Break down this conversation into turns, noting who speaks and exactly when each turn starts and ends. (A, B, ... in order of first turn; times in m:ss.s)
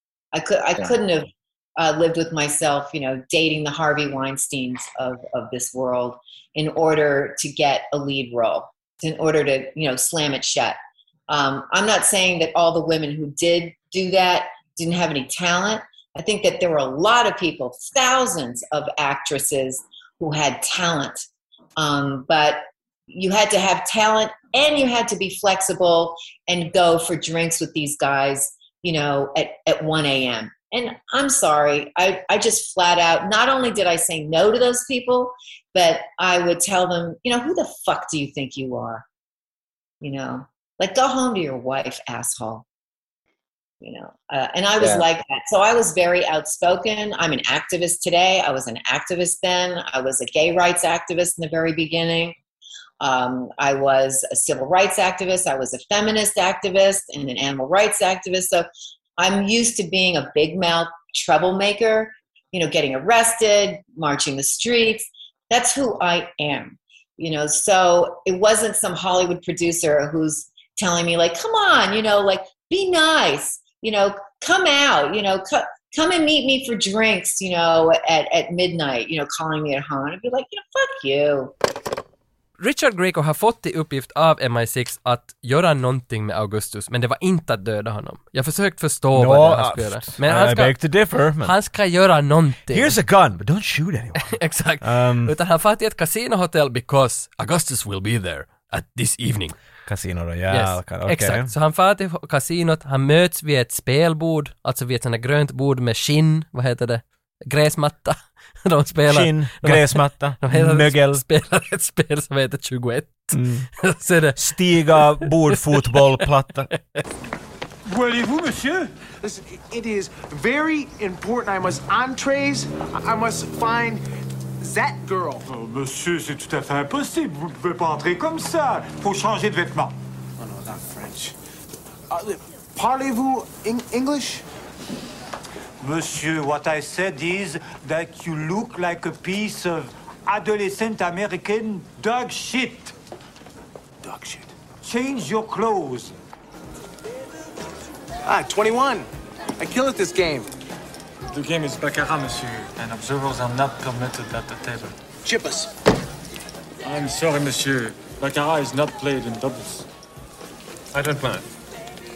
0:00.3-0:10.8 A
0:11.3-0:21.2 A
0:21.8-0:39.0 A
0:40.0-0:42.6 A
0:43.8-0:52.3 A
0:53.0-1:21.5 A
1:22.6-1:30.8 B
1:29.1-1:31.5 C
1:31.4-1:33.0 B
1:32.7-1:35.3 C
1:34.2-1:39.6 B
1:39.8-1:41.5 C
1:40.5-1:54.5 B
1:49.1-1:51.2 C
1:53.3-1:53.7 C
1:54.4-1:56.7 C
1:55.0-1:56.0 B
1:57.8-1:58.9 D
1:59.2-2:04.0 E
2:04.6-2:05.4 E
2:05.4-2:09.9 D
2:10.4-2:11.3 E
2:12.1-2:14.4 E
2:15.8-2:22.9 D
2:24.0-2:24.5 E
2:24.8-2:26.1 D
2:28.2-2:29.1 E
2:29.6-2:30.5 E
2:31.3-2:34.9 F
2:35.2-2:35.7 E
2:36.8-2:39.8 F
2:40.9-2:41.4 F